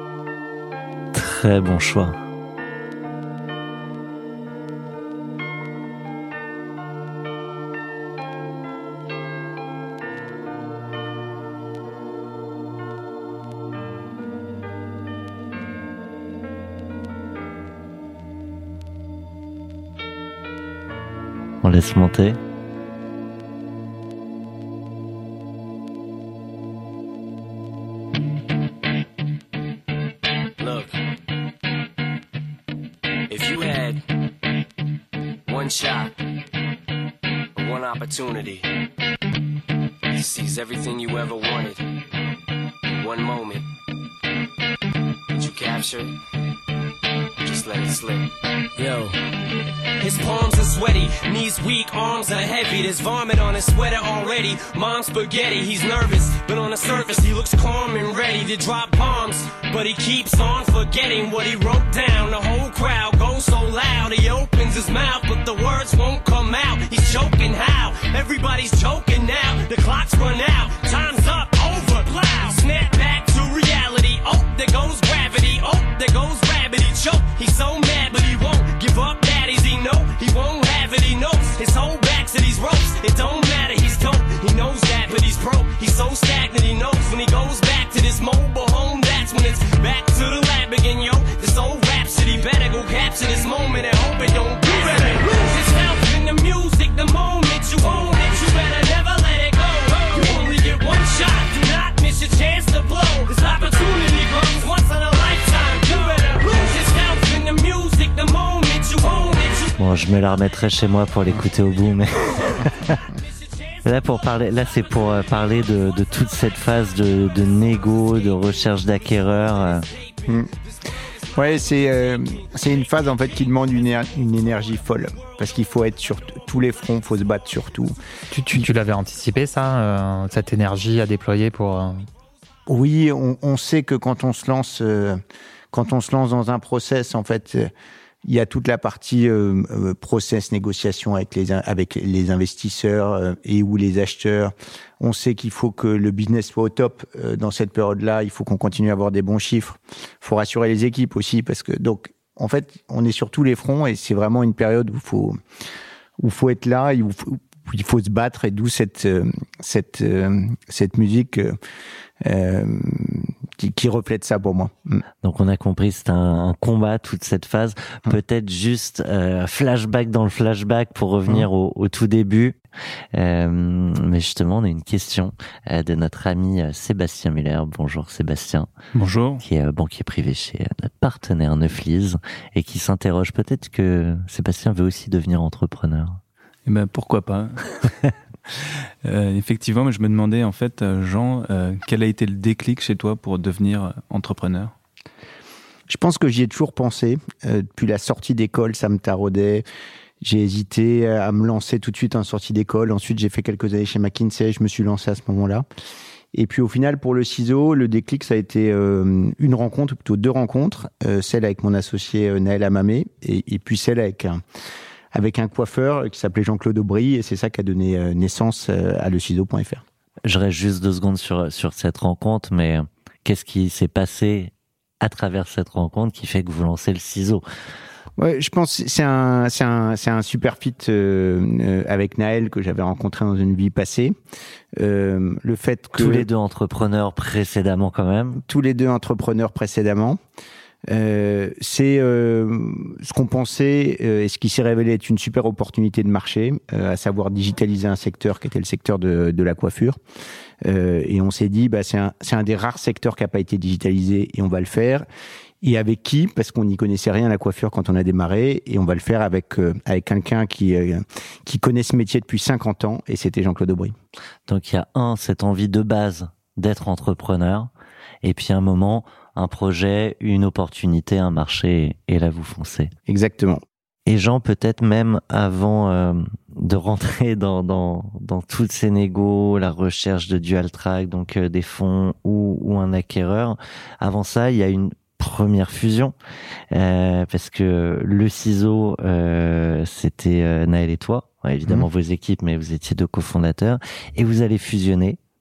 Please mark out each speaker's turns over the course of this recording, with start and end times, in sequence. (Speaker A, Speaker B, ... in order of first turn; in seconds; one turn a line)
Speaker A: 1.1-2.2
Speaker A: 21.6-22.4
Speaker B: 30.6-30.9
Speaker B: 33.3-34.0
Speaker B: 35.5-36.1
Speaker B: 37.6-38.7
Speaker B: 40.1-41.9
Speaker B: 42.9-43.6
Speaker B: 45.3-46.1
Speaker B: 47.4-49.2
Speaker B: 50.0-109.8
Speaker A: 109.8-113.0
Speaker A: 113.8-119.9
Speaker B: 117.3-118.3
Speaker B: 119.5-120.3
Speaker C: 121.4-128.0
Speaker B: 123.1-123.5
Speaker B: 125.1-125.4
Speaker D: 128.3-132.0
Speaker C: 132.7-135.2
Speaker C: 135.7-137.7
Speaker C: 138.2-155.4
Speaker C: 156.2-161.6
Speaker C: 162.2-165.0
Speaker A: 165.2-172.6
Speaker A: 173.1-178.7
Speaker E: 178.9-179.4
Speaker A: 179.4-186.2
Speaker E: 186.7-194.7
Speaker C: 195.9-199.6
Speaker C: 200.2-205.6
Speaker C: 206.3-214.4
Speaker C: 215.1-219.8
Speaker A: 220.3-227.4
Speaker C: 228.2-234.2
Speaker C: 234.8-236.3
Speaker A: 235.9-238.4
Speaker C: 238.4-240.2
Speaker C: 240.9-250.0
Speaker C: 250.6-255.1
Speaker C: 255.6-263.9
Speaker A: 264.5-267.7
Speaker A: 268.2-272.9
Speaker C: 273.1-273.6
Speaker A: 274.1-286.1
Speaker A: 286.7-295.2